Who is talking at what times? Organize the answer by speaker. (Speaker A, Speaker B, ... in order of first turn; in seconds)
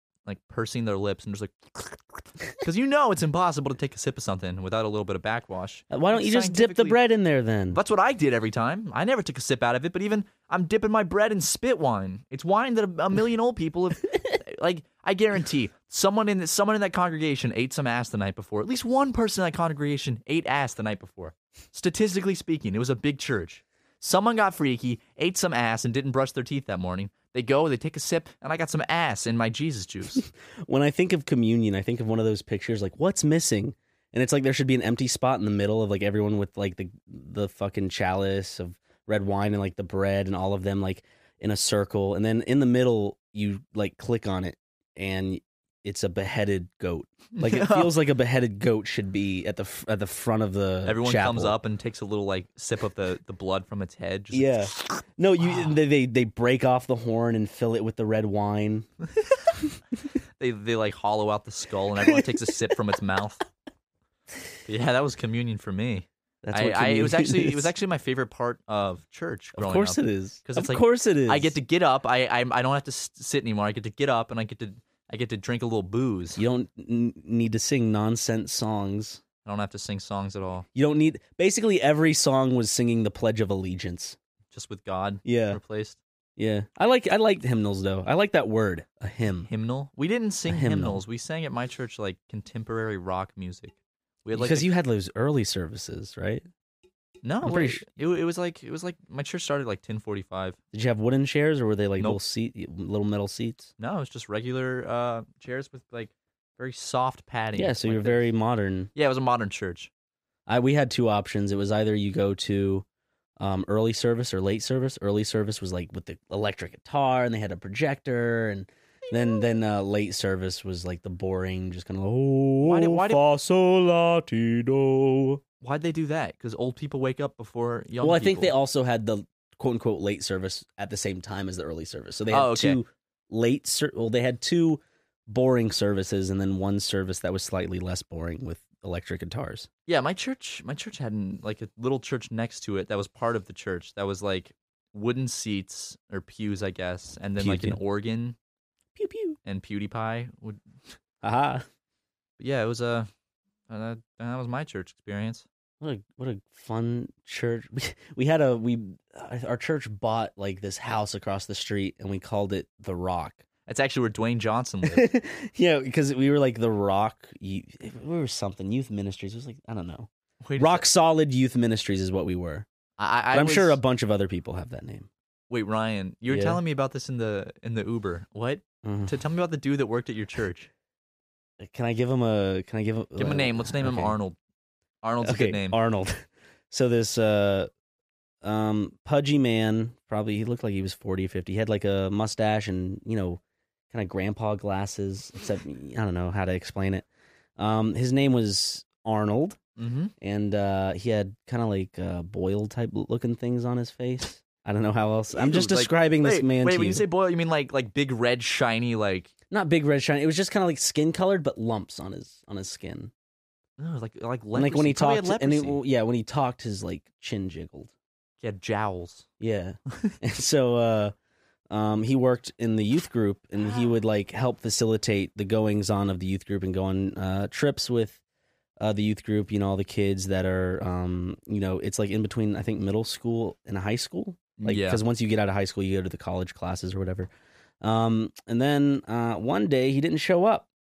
Speaker A: 0.2-7.0, 7.7-30.2, 47.4-47.9, 50.9-55.8, 60.4-63.4, 64.7-76.4, 79.4-80.7, 84.5-86.0, 89.5-94.7, 97.2-100.6, 103.8-108.3, 109.0-109.9, 122.7-123.2, 125.6-128.5, 132.3-132.8, 139.9-148.4, 149.5-150.6, 152.4-153.1, 153.7-155.5, 163.7-165.1, 170.4-170.8, 173.0-173.8, 175.5-180.7, 183.2-184.4, 185.0-185.8, 199.8-200.1, 205.3-209.3, 213.8-215.8, 218.4-219.3, 234.6-235.0
Speaker B: 5.9-7.8, 30.6-51.6, 54.3-58.9, 62.0-62.4, 66.4-67.7, 69.6-71.5, 76.4-79.2, 80.8-84.2, 85.2-85.6, 86.4-89.5, 90.5-91.0, 94.3-96.4, 97.4-97.8, 100.7-103.7, 107.6-108.9, 110.5-112.8, 113.4-125.4, 128.0-139.7, 147.4-147.8, 148.9-149.4, 151.2-151.6, 155.8-163.4, 164.8-172.7, 173.3-175.1, 176.3-176.6, 178.8-179.2, 181.6-184.2, 185.2-187.7, 188.4-193.4, 193.9-197.1, 197.6-199.6, 200.2-207.0, 209.5-213.1, 214.5-217.9, 219.4-221.1, 221.7-228.2, 228.8-237.3, 237.8-240.7